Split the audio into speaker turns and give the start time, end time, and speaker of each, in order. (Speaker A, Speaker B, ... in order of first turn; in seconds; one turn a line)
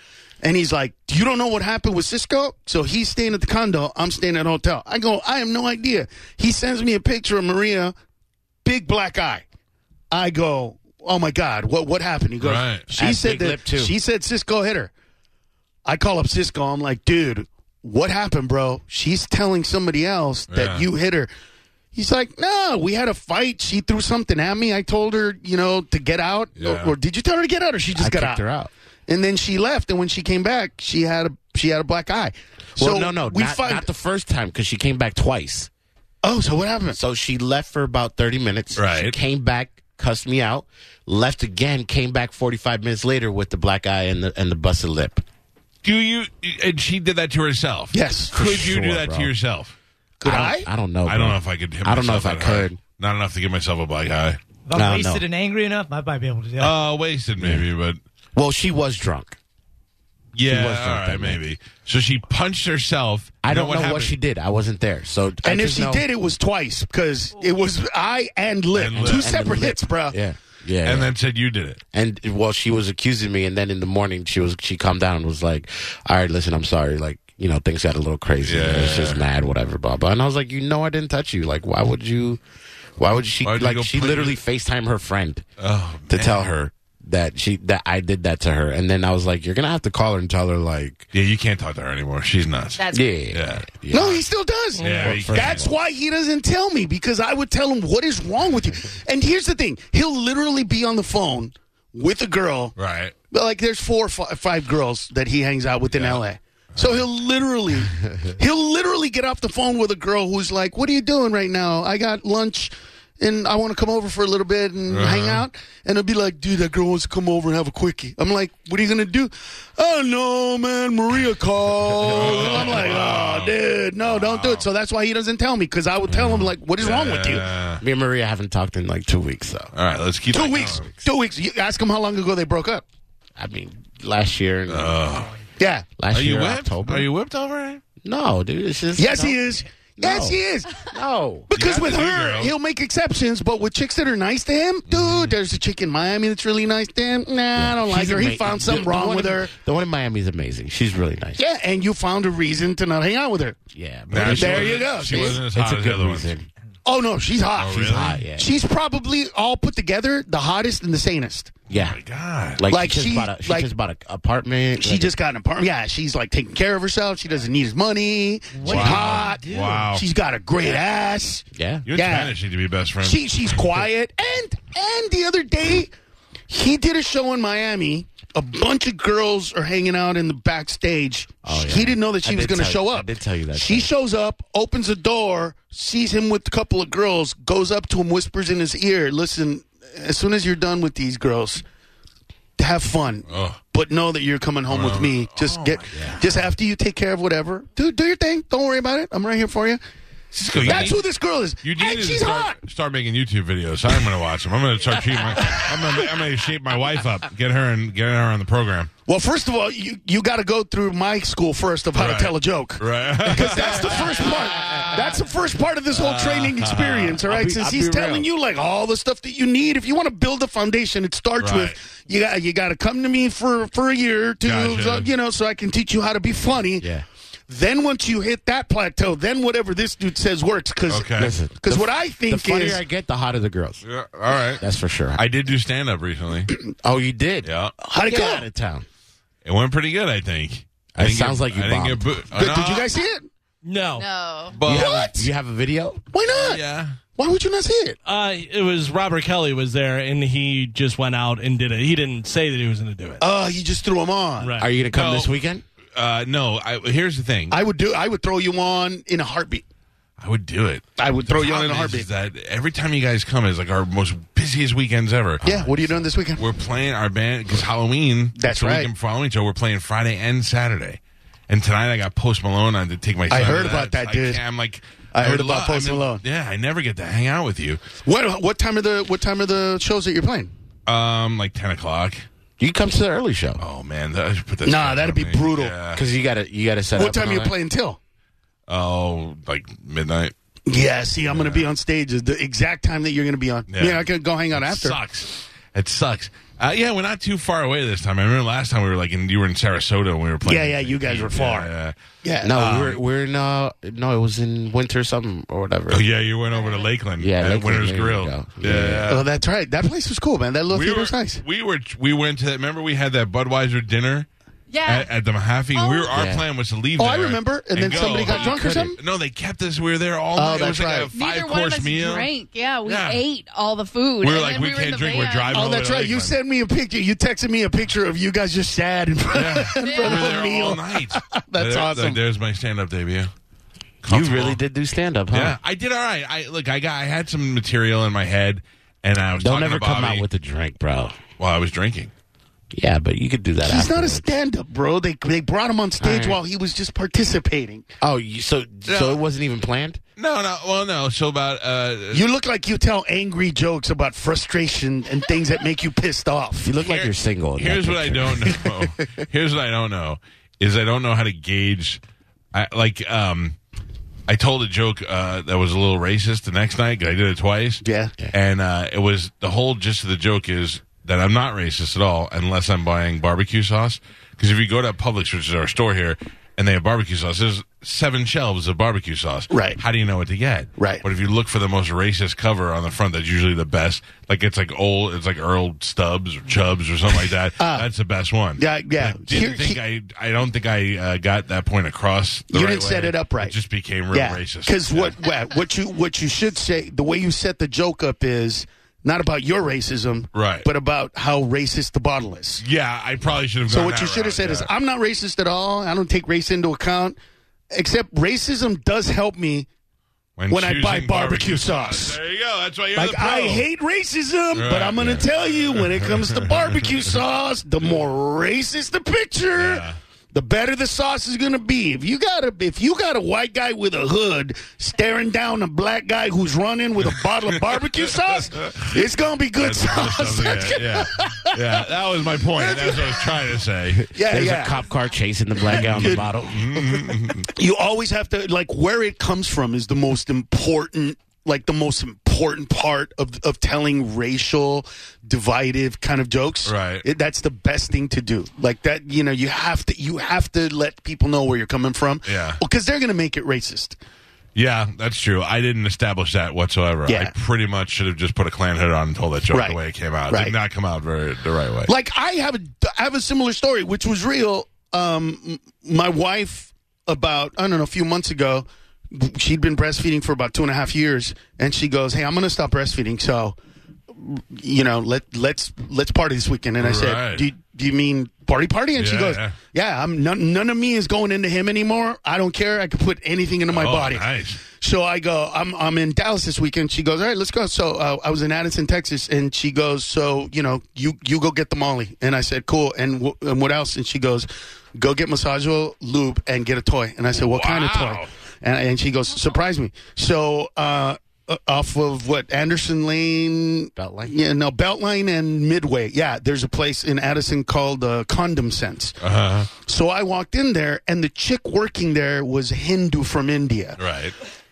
Speaker A: 0.4-7.9
Speaker A: 8.7-9.4
Speaker A: 10.1-14.9
Speaker B: 12.4-12.9
Speaker C: 12.9-13.9
Speaker A: 15.9-21.3
Speaker B: 20.5-20.9
Speaker A: 21.9-28.4
Speaker B: 26.6-26.9
Speaker C: 27.9-28.7
Speaker A: 29.1-33.9
Speaker C: 32.8-35.7
Speaker A: 36.2-37.0
Speaker C: 36.9-45.2
Speaker B: 38.8-39.1
Speaker B: 45.8-49.8
Speaker A: 47.9-48.4
Speaker C: 48.3-49.3
Speaker A: 50.2-50.7
Speaker C: 50.2-52.8
Speaker B: 51.0-54.4
Speaker D: 54.7-56.8
Speaker C: 54.7-55.2
Speaker B: 56.6-58.0
Speaker C: 57.4-57.7
Speaker C: 58.4-59.4
Speaker B: 60.4-64.2
Speaker C: 60.5-61.4
Speaker C: 63.4-66.1
Speaker A: 65.4-70.2
Speaker B: 68.7-69.3
Speaker C: 69.0-71.1
Speaker B: 70.8-71.8
Speaker C: 71.9-82.4
Speaker B: 78.4-79.2
Speaker C: 83.0-85.5
Speaker B: 83.4-84.4
Speaker B: 85.6-86.6
Speaker C: 86.1-91.1
Speaker B: 91.1-92.8
Speaker E: 92.8-93.1
Speaker C: 92.9-94.2
Speaker B: 93.3-94.1
Speaker A: 93.9-102.7
Speaker B: 94.8-95.7
Speaker F: 94.8-95.1
Speaker C: 95.0-95.8
Speaker B: 102.8-103.1
Speaker A: 103.3-127.5
Speaker B: 105.9-106.2
Speaker B: 106.7-107.1
Speaker B: 114.9-115.5
Speaker B: 122.1-124.7
Speaker B: 126.1-127.8
Speaker C: 127.8-129.7
Speaker B: 129.7-130.9
Speaker A: 130.3-132.8
Speaker C: 133.4-135.0
Speaker B: 134.7-135.3
Speaker A: 135.6-135.9
Speaker C: 136.0-137.1
Speaker B: 136.1-137.8
Speaker C: 138.0-139.4
Speaker A: 139.0-140.8
Speaker C: 140.0-141.5
Speaker A: 141.5-149.5
Speaker B: 141.5-142.5
Speaker B: 144.9-145.3
Speaker C: 147.6-151.4
Speaker A: 151.4-153.6
Speaker C: 153.7-156.5
Speaker B: 154.1-156.3
Speaker A: 154.2-155.4
Speaker A: 156.8-161.6
Speaker B: 157.6-158.2
Speaker C: 157.7-158.5
Speaker C: 161.7-162.0
Speaker B: 161.7-162.6
Speaker C: 162.6-165.2
Speaker A: 162.7-163.7
Speaker A: 164.8-172.3
Speaker D: 168.5-169.8
Speaker B: 168.6-170.1
Speaker C: 171.5-171.9
Speaker B: 171.9-173.2
Speaker A: 173.0-175.9
Speaker A: 176.5-191.6
Speaker C: 181.4-183.9
Speaker A: 192.6-199.8
Speaker B: 193.3-193.6
Speaker B: 194.7-196.5
Speaker C: 195.9-196.2
Speaker B: 200.3-201.0
Speaker A: 200.6-202.6
Speaker B: 201.6-208.9
Speaker A: 205.4-206.0
Speaker A: 209.1-226.9
Speaker B: 211.9-215.2
Speaker B: 215.9-217.2
Speaker C: 217.2-218.3
Speaker B: 221.4-221.8
Speaker B: 224.4-225.1
Speaker C: 226.8-227.1
Speaker A: 227.5-232.8
Speaker B: 230.9-231.3
Speaker C: 231.2-233.8
Speaker B: 233.8-234.6
Speaker C: 234.6-235.2
Speaker B: 235.2-236.5
Speaker C: 236.8-238.9
Speaker B: 237.4-237.7
Speaker A: 237.8-238.4
Speaker B: 239.4-242.9
Speaker C: 240.9-242.2
Speaker A: 242.3-243.3
Speaker F: 243.6-244.1
Speaker E: 244.0-244.6
Speaker B: 244.5-245.1
Speaker C: 244.7-246.1
Speaker A: 244.7-245.3
Speaker A: 246.1-246.6
Speaker B: 246.3-247.0
Speaker A: 247.2-248.0
Speaker F: 248.1-253.2
Speaker A: 253.2-254.5
Speaker F: 254.4-254.7
Speaker C: 254.6-255.6
Speaker B: 254.9-255.3
Speaker B: 256.0-257.6
Speaker A: 257.5-259.6
Speaker B: 260.2-277.8
Speaker A: 261.0-262.1
Speaker A: 265.4-266.4
Speaker A: 268.4-268.9
Speaker A: 273.3-274.4
Speaker A: 275.1-276.2
Speaker A: 278.1-280.5
Speaker B: 280.9-282.3
Speaker C: 282.6-283.6
Speaker B: 283.6-286.0
Speaker A: 284.6-285.8
Speaker C: 285.9-287.6
Speaker A: 286.9-288.0
Speaker B: 288.7-290.3
Speaker A: 290.7-295.0
Speaker B: 291.3-291.7
Speaker B: 293.7-301.9
Speaker A: 300.4-301.7
Speaker A: 302.2-302.5
Speaker C: 302.4-306.1
Speaker B: 302.5-303.0
Speaker B: 305.9-309.3
Speaker E: 306.5-306.9
Speaker C: 307.2-309.2
Speaker A: 309.1-311.4
Speaker B: 310.7-314.3
Speaker E: 314.7-315.1
Speaker B: 314.9-322.3
Speaker E: 315.7-316.1
Speaker C: 316.1-316.4
Speaker A: 317.0-319.0
Speaker C: 318.2-319.0
Speaker A: 320.4-321.1
Speaker E: 321.1-325.6
Speaker B: 322.9-323.2
Speaker B: 324.2-326.4
Speaker A: 325.5-332.2
Speaker B: 329.3-333.3
Speaker E: 329.8-330.4
Speaker B: 334.0-334.6
Speaker C: 334.1-335.6
Speaker B: 335.3-340.2
Speaker C: 339.4-341.2
Speaker B: 341.4-342.1
Speaker C: 342.7-344.3
Speaker A: 343.6-347.9
Speaker C: 346.0-346.4
Speaker C: 348.0-350.0
Speaker B: 348.9-349.2
Speaker B: 350.2-352.3
Speaker A: 352.1-356.7
Speaker C: 356.6-359.1
Speaker B: 356.8-362.0
Speaker B: 362.5-363.6
Speaker B: 364.3-395.2
Speaker A: 367.8-368.1
Speaker A: 379.5-379.8
Speaker A: 380.8-381.0
Speaker A: 387.6-387.9
Speaker A: 388.6-389.8
Speaker A: 392.5-393.5
Speaker A: 394.1-402.6
Speaker B: 400.4-400.7
Speaker B: 402.6-404.7
Speaker A: 403.7-407.2
Speaker A: 407.7-409.7
Speaker B: 410.4-413.7
Speaker A: 410.5-412.2
Speaker A: 412.9-431.8
Speaker B: 414.5-417.0
Speaker B: 419.6-420.0
Speaker B: 427.0-428.9
Speaker B: 429.6-434.1
Speaker A: 432.6-433.4
Speaker C: 433.9-436.7
Speaker A: 434.1-434.8
Speaker A: 435.6-436.3
Speaker B: 435.8-437.5
Speaker A: 437.5-454.0
Speaker B: 446.6-447.1
Speaker B: 452.2-452.6
Speaker B: 454.6-461.9
Speaker A: 457.1-457.3
Speaker A: 459.5-460.6
Speaker A: 461.9-473.6
Speaker A: 474.1-509.2
Speaker B: 476.8-477.5
Speaker B: 479.0-479.6
Speaker B: 483.7-484.6
Speaker B: 497.3-498.3
Speaker C: 504.0-504.3
Speaker B: 509.2-509.7
Speaker A: 509.7-514.0
Speaker B: 514.0-514.4